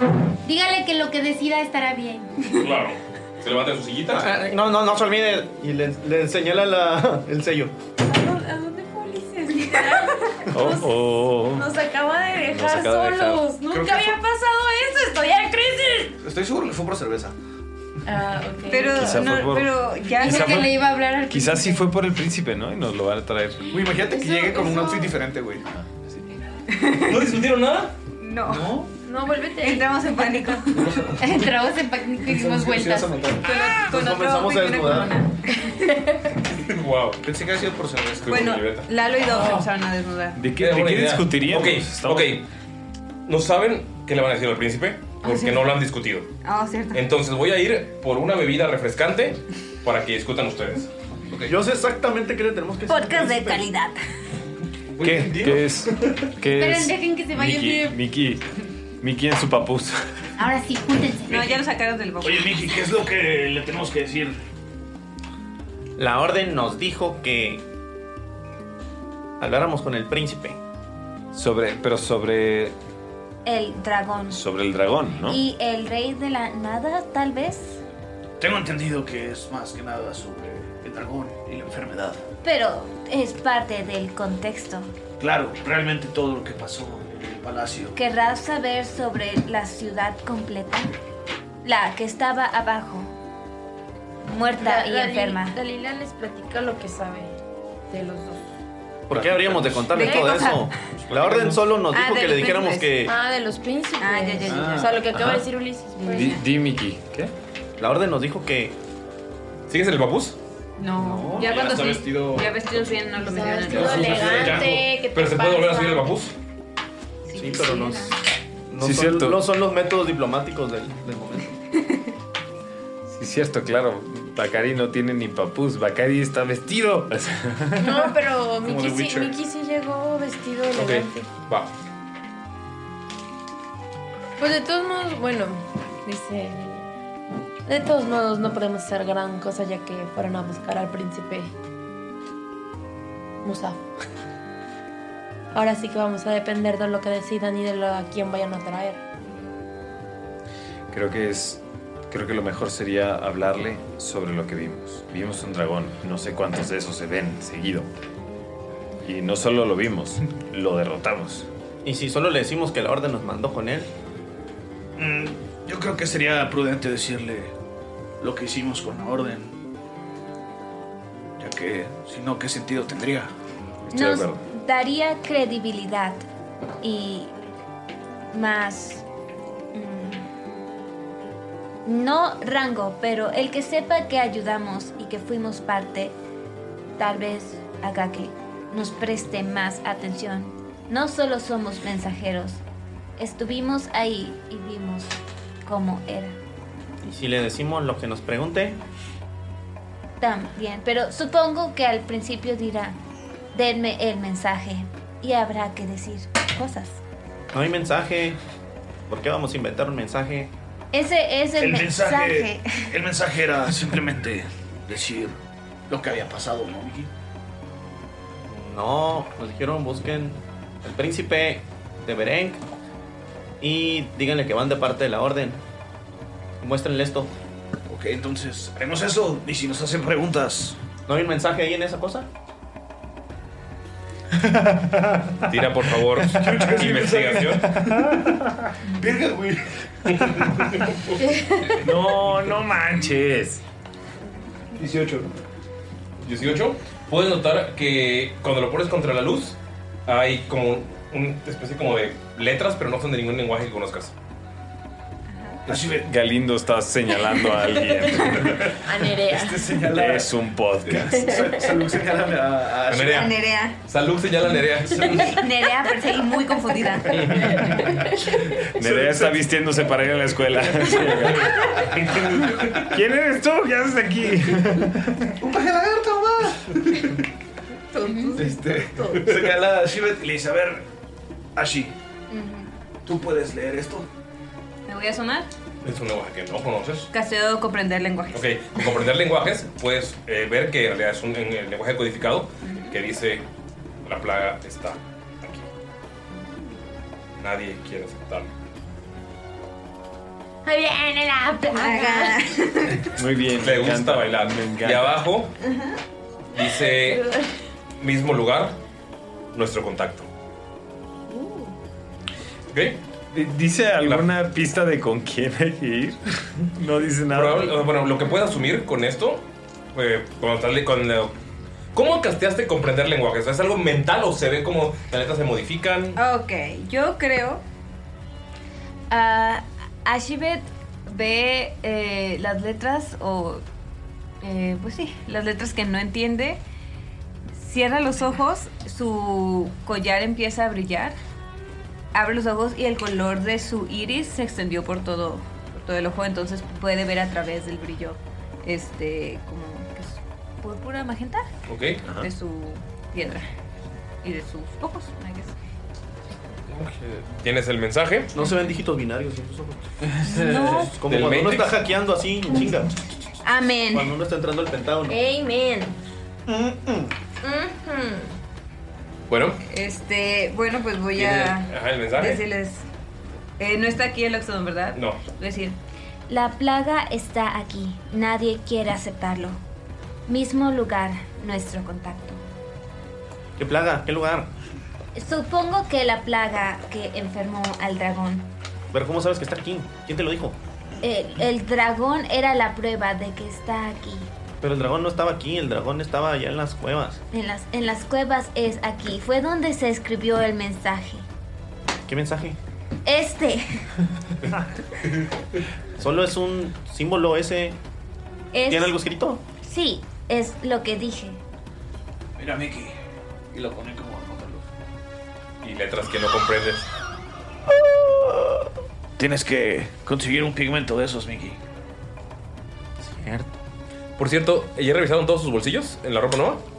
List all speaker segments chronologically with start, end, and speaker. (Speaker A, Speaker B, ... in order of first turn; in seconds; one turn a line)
Speaker A: 0.4-2.4
Speaker B: 2.5-4.4
Speaker C: 4.2-7.7
Speaker D: 8.1-10.9
Speaker E: 9.8-10.4
Speaker F: 10.5-11.7
Speaker D: 11.5-14.2
Speaker F: 12.4-13.6
Speaker G: 13.6-14.2
Speaker E: 13.7-16.1
Speaker G: 16.2-17.4
Speaker D: 18.1-19.1
Speaker E: 18.7-20.7
Speaker F: 18.9-23.7
Speaker A: 20.2-21.8
Speaker G: 23.7-25.6
Speaker D: 24.0-25.1
Speaker F: 25.7-26.2
Speaker E: 26.7-27.2
Speaker B: 27.0-27.9
Speaker E: 28.2-28.8
Speaker G: 28.4-28.9
Speaker D: 29.0-30.5
Speaker E: 29.6-30.9
Speaker G: 30.7-31.5
Speaker A: 31.2-33.1
Speaker G: 32.2-33.8
Speaker E: 33.4-35.8
Speaker C: 33.7-35.2
Speaker B: 36.7-37.2
Speaker G: 37.2-38.6
Speaker B: 38.2-38.9
Speaker E: 38.3-40.4
Speaker G: 39.3-39.6
Speaker F: 40.4-42.4
Speaker B: 40.6-42.5
Speaker B: 43.3-46.3
Speaker E: 45.2-45.7
Speaker E: 46.4-47.0
Speaker B: 46.9-50.9
Speaker C: 51.5-53.7
Speaker E: 52.9-54.0
Speaker G: 55.0-56.3
Speaker F: 55.0-58.4
Speaker A: 56.5-58.0
Speaker F: 59.0-60.0
Speaker A: 60.4-61.6
Speaker E: 61.3-62.6
Speaker G: 62.2-64.4
Speaker C: 66.0-67.6
Speaker C: 69.4-70.6
Speaker F: 71.3-72.7
Speaker H: 73.4-74.4
Speaker F: 74.3-75.4
Speaker H: 75.3-77.8
Speaker G: 78.4-82.2
Speaker H: 82.4-84.9
Speaker G: 85.2-88.0
Speaker H: 87.9-90.9
Speaker H: 91.6-93.1
Speaker H: 94.2-95.6
Speaker D: 94.6-97.3
Speaker D: 97.9-98.5
Speaker C: 99.1-103.2
Speaker G: 99.1-100.0
Speaker E: 99.9-100.7
Speaker D: 100.0-100.5
Speaker G: 101.0-101.7
Speaker E: 101.9-102.9
Speaker D: 102.4-106.4
Speaker E: 104.0-105.0
Speaker G: 104.5-105.0
Speaker F: 105.1-105.5
Speaker E: 106.0-106.4
Speaker F: 106.1-107.3
Speaker C: 107.8-108.7
Speaker B: 109.7-110.4
Speaker E: 110.8-114.4
Speaker G: 110.9-112.6
Speaker D: 113.2-116.1
Speaker G: 113.6-114.9
Speaker B: 114.4-116.3
Speaker E: 117.3-118.1
Speaker C: 117.3-118.1
Speaker C: 118.7-121.6
Speaker F: 118.8-119.4
Speaker F: 123.1-128.1
Speaker D: 127.8-131.3
Speaker G: 128.6-129.3
Speaker B: 130.8-131.7
Speaker D: 134.4-136.9
Speaker D: 137.7-141.5
Speaker D: 143.4-143.9
Speaker D: 145.5-149.0
Speaker F: 150.9-157.9
Speaker F: 159.0-161.4
Speaker C: 161.8-163.9
Speaker G: 165.0-167.5
Speaker G: 168.2-169.6
Speaker G: 171.4-173.3
Speaker F: 173.9-174.4
Speaker H: 173.9-176.2
Speaker H: 176.8-177.3
Speaker H: 178.3-179.1
Speaker H: 179.7-180.3
Speaker H: 181.8-186.1
Speaker H: 187.0-192.6
Speaker H: 193.2-196.4
Speaker C: 197.0-198.8
Speaker H: 200.2-203.0
Speaker H: 203.5-207.0
Speaker C: 207.5-208.4
Speaker C: 209.1-210.5
Speaker H: 210.9-212.9
Speaker G: 211.6-215.4
Speaker G: 215.9-217.1
Speaker C: 218.5-222.6
Speaker C: 223.6-225.6
Speaker C: 226.6-227.3
Speaker G: 227.9-230.8
Speaker C: 231.1-232.3
Speaker B: 235.5-237.7
Speaker G: 236.3-238.2
Speaker F: 237.8-238.3
Speaker G: 238.9-239.7
Speaker B: 240.1-241.2
Speaker D: 241.2-241.7
Speaker F: 241.8-243.6
Speaker G: 242.3-242.6
Speaker G: 244.8-245.3
Speaker B: 246.2-249.6
Speaker B: 250.1-254.1
Speaker G: 255.7-256.1
Speaker F: 255.8-258.7
Speaker D: 258.8-259.8
Speaker G: 259.2-263.3
Speaker F: 259.9-261.3
Speaker B: 262.9-265.4
Speaker E: 263.1-263.8
Speaker E: 265.3-267.3
Speaker B: 267.1-267.7
Speaker F: 268.8-275.4
Speaker G: 268.8-269.7
Speaker G: 270.9-271.3
Speaker B: 271.9-272.7
Speaker G: 275.4-276.9
Speaker E: 277.9-278.6
Speaker G: 278.4-280.9
Speaker G: 281.6-281.9
Speaker G: 283.0-284.1
Speaker E: 284.9-285.5
Speaker B: 285.9-287.1
Speaker E: 287.1-288.9
Speaker B: 288.3-293.4
Speaker E: 292.6-292.9
Speaker B: 294.1-295.7
Speaker B: 297.4-298.5
Speaker D: 300.6-302.4
Speaker E: 301.6-303.1
Speaker F: 303.1-305.2
Speaker B: 303.6-305.6
Speaker B: 306.5-307.3
Speaker D: 306.9-307.5
Speaker B: 308.0-308.8
Speaker B: 309.5-310.3
Speaker D: 311.3-311.6
Speaker B: 312.7-313.0
Speaker F: 313.3-317.8
Speaker B: 317.3-319.4
Speaker B: 319.9-321.4
Speaker B: 321.9-326.2
Speaker E: 326.1-327.6
Speaker E: 329.1-333.6
Speaker E: 334.4-336.6
Speaker E: 337.5-341.1
Speaker E: 342.1-351.5
Speaker B: 351.7-352.0
Speaker F: 352.1-352.3
Speaker E: 352.1-353.4
Speaker E: 354.2-355.5
Speaker B: 356.8-358.3
Speaker C: 358.3-359.9
Speaker G: 360.3-360.7
Speaker E: 360.4-360.8
Speaker C: 360.9-362.9
Speaker B: 361.1-361.8
Speaker E: 363.4-364.1
Speaker C: 363.9-365.2
Speaker D: 365.1-365.9
Speaker C: 366.5-367.1
Speaker D: 367.4-368.4
Speaker B: 369.3-369.6
Speaker E: 369.7-372.9
Speaker B: 371.1-372.4
Speaker E: 373.6-375.8
Speaker B: 374.9-375.2
Speaker H: 376.3-379.6
Speaker H: 380.3-382.4
Speaker C: 383.6-384.5
Speaker H: 385.1-388.5
Speaker C: 388.9-390.6
Speaker H: 391.0-394.3
Speaker C: 394.6-397.2
Speaker H: 397.3-401.3
Speaker C: 402.1-402.6
Speaker H: 403.1-403.9
Speaker C: 406.0-407.8
Speaker H: 408.5-409.0
Speaker C: 408.7-409.4
Speaker H: 409.6-411.4
Speaker G: 412.4-413.0
Speaker G: 413.5-414.6
Speaker B: 415.6-416.9
Speaker G: 419.2-421.6
Speaker C: 423.0-423.4
Speaker B: 424.2-426.6